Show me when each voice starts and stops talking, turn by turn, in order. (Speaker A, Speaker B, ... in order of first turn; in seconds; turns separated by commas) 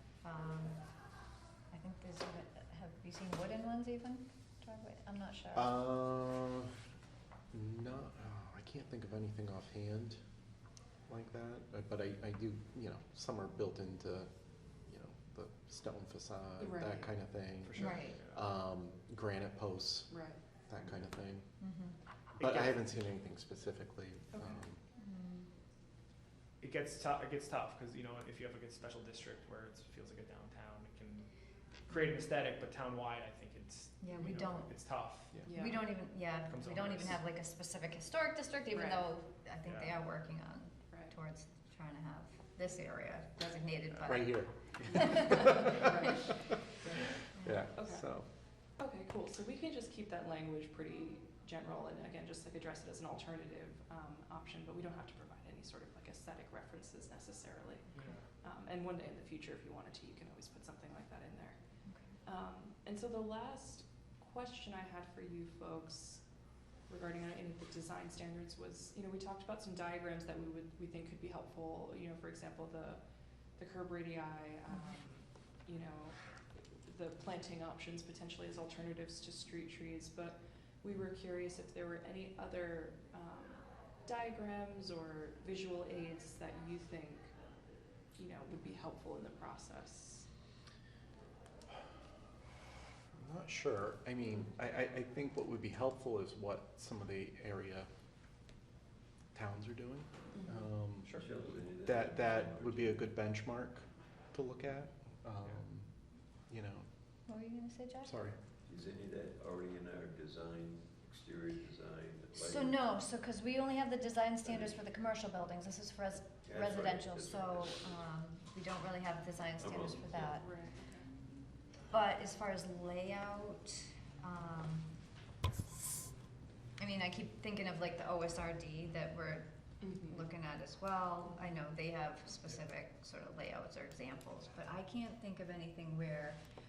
Speaker A: 0.2-0.8, Speaker A: 1.7-5.8, Speaker B: 5.5-6.7, Speaker B: 7.5-10.2, Speaker B: 11.1-21.6, Speaker C: 16.6-17.1, Speaker D: 17.6-18.5, Speaker A: 17.8-18.2, Speaker C: 20.1-20.4, Speaker A: 21.6-22.0, Speaker B: 22.4-24.8, Speaker D: 22.4-22.7, Speaker C: 24.3-24.6, Speaker A: 25.0-25.5, Speaker D: 26.6-31.2, Speaker D: 31.9-35.4, Speaker A: 34.0-34.7, Speaker C: 35.5-35.9, Speaker A: 35.5-45.9, Speaker D: 36.5-37.2, Speaker C: 38.7-39.1, Speaker D: 39.6-39.9, Speaker B: 44.0-45.7, Speaker C: 45.8-46.3, Speaker A: 47.3-47.6, Speaker B: 47.4-48.3, Speaker C: 47.8-48.0, Speaker C: 48.8-61.6, Speaker D: 57.9-58.2, Speaker A: 61.9-62.1, Speaker C: 62.2-66.2, Speaker C: 66.9-73.0, Speaker C: 73.5-87.3, Speaker C: 88.2-90.3, Speaker B: 93.2-97.9, Speaker B: 99.3-105.9, Speaker E: 101.2-103.1, Speaker B: 106.5-106.8, Speaker A: 107.3-108.2, Speaker B: 108.0-108.4, Speaker E: 108.7-112.8, Speaker A: 112.3-120.4, Speaker E: 114.4-114.8, Speaker E: 116.4-118.0, Speaker E: 119.6-120.4, Speaker C: 120.4-121.0, Speaker A: 121.9-124.9, Speaker A: 126.8-136.4, Speaker C: 129.8-130.3